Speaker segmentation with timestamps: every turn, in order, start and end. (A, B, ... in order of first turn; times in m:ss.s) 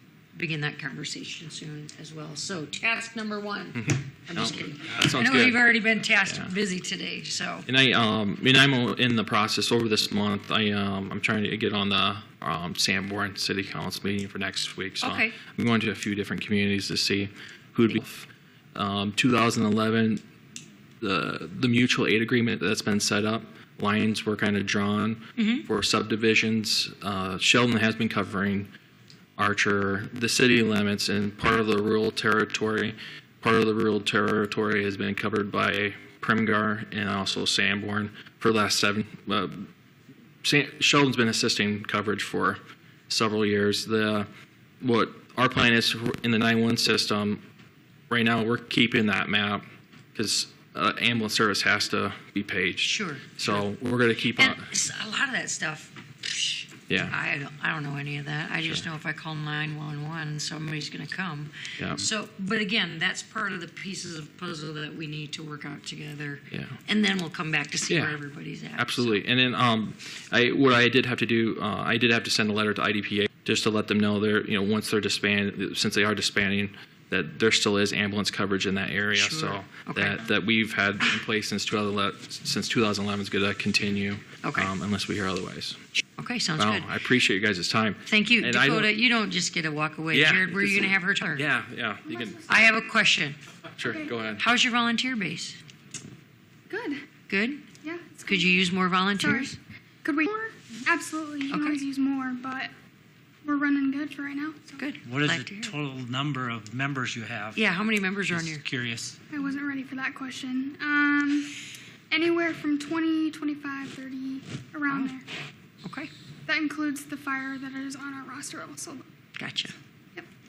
0:00.3-0:07.7 A
0:03.7-0:05.7 B
0:06.2-0:06.5 B
0:07.6-0:20.2 B
0:15.0-0:15.4 A
0:21.0-0:28.7 B
0:25.4-0:25.6 A
0:29.4-0:39.7 B
0:40.4-0:44.3 B
0:44.8-0:47.4 B
0:48.1-0:54.6 B
0:52.8-0:53.6 A
0:54.4-1:09.2 A
0:56.9-0:57.1 B
1:01.8-1:02.0 B
1:07.9-1:08.2 B
1:08.8-1:25.8 B
1:19.1-1:20.2 A
1:24.4-1:24.7 A
1:26.2-1:26.9 A
1:26.6-1:28.9 B
1:28.0-1:31.4 A
1:30.1-1:32.4 B
1:32.1-1:32.4 C
1:32.5-1:33.4 A
1:33.8-1:34.4 B
1:34.4-1:35.6 A
1:36.7-1:37.0 C
1:37.3-1:37.6 A
1:37.8-1:38.6 C
1:38.2-1:39.6 A
1:39.2-1:39.5 C
1:40.0-1:42.7 C
1:41.5-1:41.8 A
1:43.4-1:44.8 C
1:44.8-1:45.7 A
1:45.0-1:47.6 D
1:47.5-1:48.6 A
1:48.3-1:49.2 D
1:49.3-1:51.5 C
1:52.1-1:55.2 C
1:54.9-1:55.1 A
1:55.8-1:56.1 A
1:56.5-1:59.0 C
1:59.4-1:59.7 A